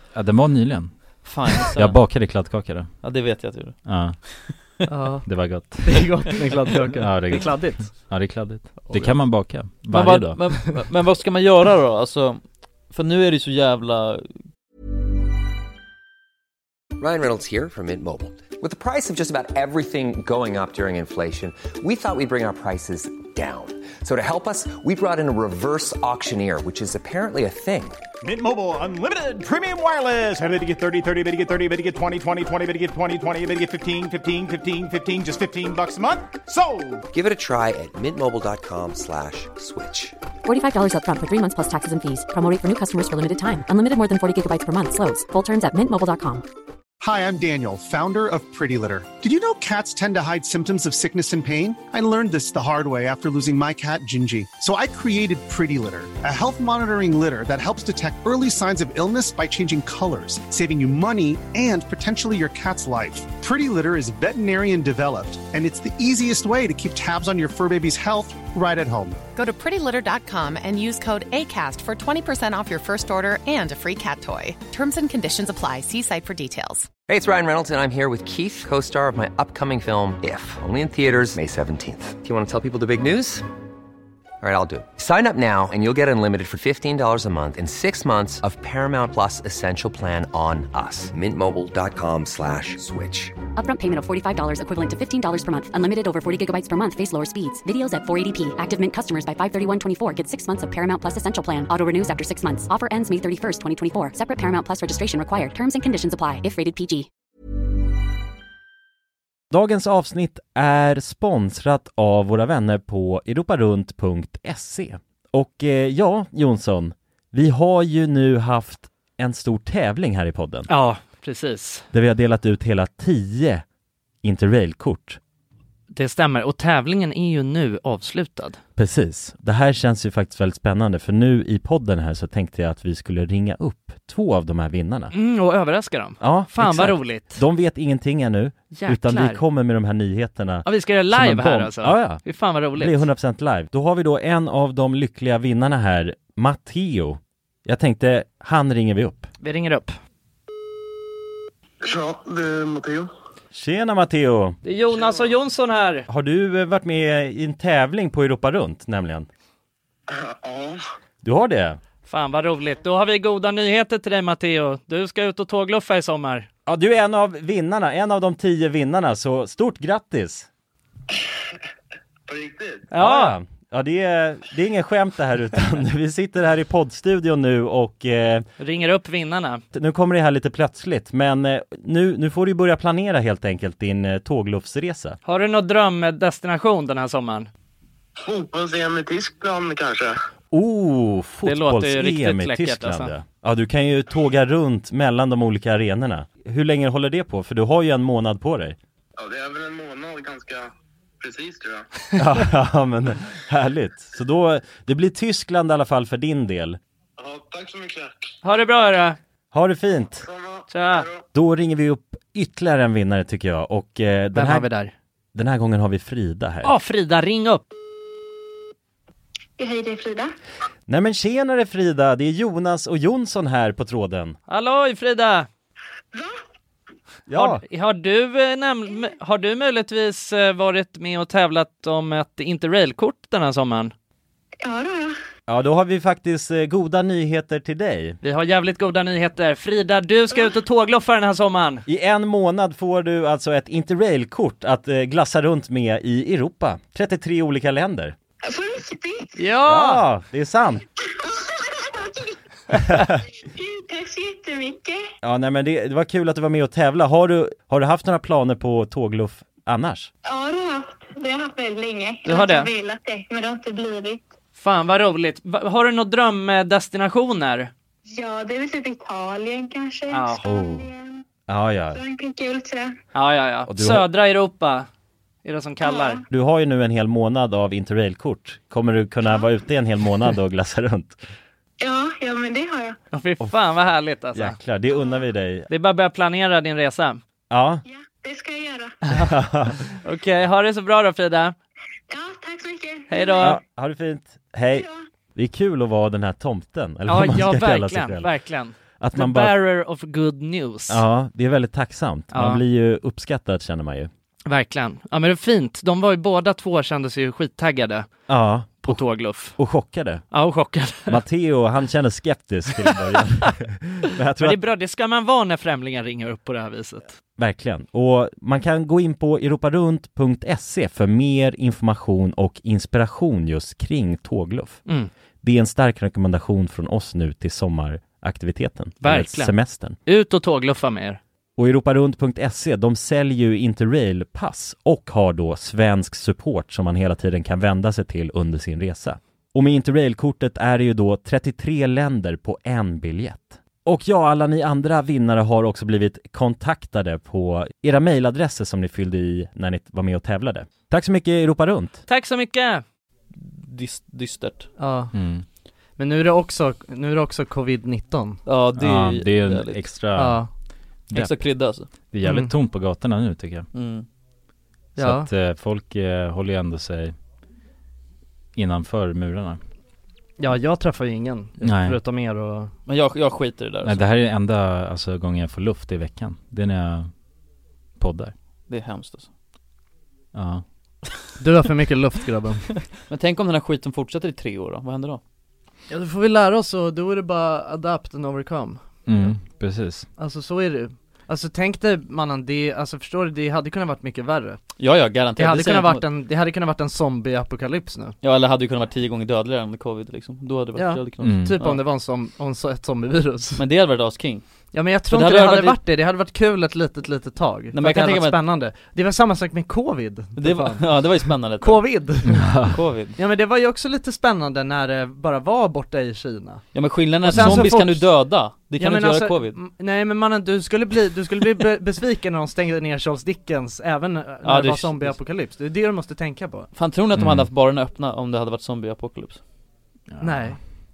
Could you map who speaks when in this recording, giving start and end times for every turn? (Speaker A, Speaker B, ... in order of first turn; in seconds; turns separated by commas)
Speaker A: 0.1-2.9, Speaker B: 1.2-4.8, Speaker A: 3.8-4.2, Speaker C: 4.8-9.1, Speaker A: 5.2-6.2, Speaker A: 7.0-10.4, Speaker B: 9.9-14.3, Speaker D: 17.0-28.0, Speaker E: 28.2-37.0, Speaker D: 37.1-40.1, Speaker F: 40.4-46.4, Speaker G: 47.0-69.2, Speaker H: 69.3-76.9, Speaker D: 77.1-83.4, Speaker D: 84.4-93.3, Speaker F: 93.5-107.1, Speaker I: 109.5-120.7, Speaker C: 120.7-121.8, Speaker I: 121.9-123.6, Speaker I: 124.2-125.2, Speaker C: 125.9-128.6, Speaker I: 128.8-135.1, Speaker C: 135.1-137.4, Speaker I: 136.2-149.3, Speaker C: 138.7-139.4, Speaker C: 140.6-143.0, Speaker C: 149.4-149.9, Speaker J: 151.8-153.1, Speaker I: 153.5-154.6, Speaker C: 154.6-156.1, Speaker I: 156.1-159.3, Speaker J: 160.1-160.8, Speaker I: 161.2-161.8, Speaker C: 162.1-166.5, Speaker I: 166.7-170.5, Speaker J: 172.3-172.9, Speaker C: 172.9-173.3, Speaker I: 172.9-178.4, Speaker C: 178.6-179.6, Speaker I: 179.7-185.2, Speaker C: 185.2-187.5, Speaker J: 188.2-190.1, Speaker I: 190.5-198.8, Speaker C: 191.4-193.1, Speaker J: 199.2-201.8, Speaker I: 202.2-206.8, Speaker J: 207.2-208.2, Speaker C: 208.4-209.2, Speaker I: 209.5-210.3, Speaker J: 210.2-211.3, Speaker C: 210.7-211.1, Speaker I: 211.3-214.7, Speaker C: 214.3-214.9, Speaker I: 215.3-216.7, Speaker C: 216.6-217.6, Speaker K: 219.6-220.3, Speaker I: 220.9-224.4, Speaker C: 224.5-225.5, Speaker K: 226.1-226.4, Speaker I: 227.3-227.6, Speaker C: 227.3-233.9, Speaker K: 234.6-235.1, Speaker I: 235.5-238.2, Speaker C: 238.2-241.8, Speaker I: 241.9-248.1, Speaker K: 248.4-249.3, Speaker C: 249.3-250.0, Speaker I: 249.6-250.8, Speaker K: 251.7-252.3, Speaker C: 252.7-253.0, Speaker I: 252.9-253.2, Speaker K: 253.5-255.0, Speaker I: 255.2-260.1, Speaker K: 260.2-264.2, Speaker C: 262.2-262.7, Speaker C: 264.6-267.7, Speaker K: 268.1-271.2, Speaker C: 270.1-270.4, Speaker I: 270.4-270.9, Speaker I: 271.5-272.0, Speaker K: 271.9-273.0, Speaker C: 273.1-274.9, Speaker I: 273.7-274.1, Speaker C: 275.4-276.2, Speaker K: 275.8-276.2, Speaker I: 276.3-281.2, Speaker K: 281.8-283.0, Speaker C: 283.1-284.6, Speaker I: 284.3-285.7, Speaker C: 285.7-287.2, Speaker I: 287.5-287.8, Speaker K: 287.8-288.9, Speaker C: 289.1-289.3, Speaker I: 289.1-289.8, Speaker C: 289.9-291.5, Speaker K: 292.1-293.5, Speaker C: 293.1-293.6, Speaker I: 293.4-298.4, Speaker K: 294.7-295.0, Speaker C: 297.1-301.0, Speaker I: 299.0-299.6, Speaker I: 300.9-304.1, Speaker C: 302.3-302.6, Speaker C: 304.4-308.1, Speaker I: 308.3-310.2, Speaker C: 308.8-309.6, Speaker C: 310.3-311.2, Speaker I: 311.1-314.6, Speaker C: 312.9-313.1, Speaker C: 314.4-317.1, Speaker I: 317.4-324.8, Speaker I: 325.4-330.0, Speaker C: 329.0-331.2, Speaker I: 331.6-352.0, Speaker C: 352.1-352.8, Speaker B: 353.3-354.7, Speaker C: 354.8-355.1, Speaker A: 355.1-355.4, Speaker C: 355.9-358.4, Speaker B: 358.4-360.0, Speaker A: 358.7-360.4, Speaker C: 360.1-360.5, Speaker B: 361.1-361.9, Speaker A: 361.1-363.7, Speaker C: 362.2-362.5, Speaker B: 363.7-364.1, Speaker C: 364.9-365.3, Speaker A: 365.0-367.1, Speaker A: 368.5-369.6, Speaker C: 370.4-372.7, Speaker A: 371.6-372.0, Speaker B: 372.9-374.1, Speaker A: 373.8-377.1, Speaker A: 378.0-378.3, Speaker B: 378.7-379.3, Speaker A: 380.3-380.6, Speaker C: 381.4-382.8, Speaker B: 383.1-385.2, Speaker C: 385.9-388.8, Speaker A: 389.1-390.1, Speaker C: 390.2-394.6, Speaker B: 394.8-396.0, Speaker C: 395.4-398.1, Speaker B: 398.2-401.8, Speaker C: 400.8-403.6, Speaker A: 401.2-401.6, Speaker B: 403.6-404.4, Speaker C: 404.7-412.6, Speaker B: 405.1-405.8, Speaker B: 407.7-408.4, Speaker B: 410.4-412.0, Speaker A: 412.2-412.8, Speaker B: 412.7-413.2, Speaker C: 413.1-426.7, Speaker B: 416.7-419.6, Speaker A: 417.3-417.7, Speaker B: 424.4-425.2, Speaker B: 426.7-429.4, Speaker A: 427.1-427.5, Speaker A: 430.1-430.5, Speaker C: 430.2-430.6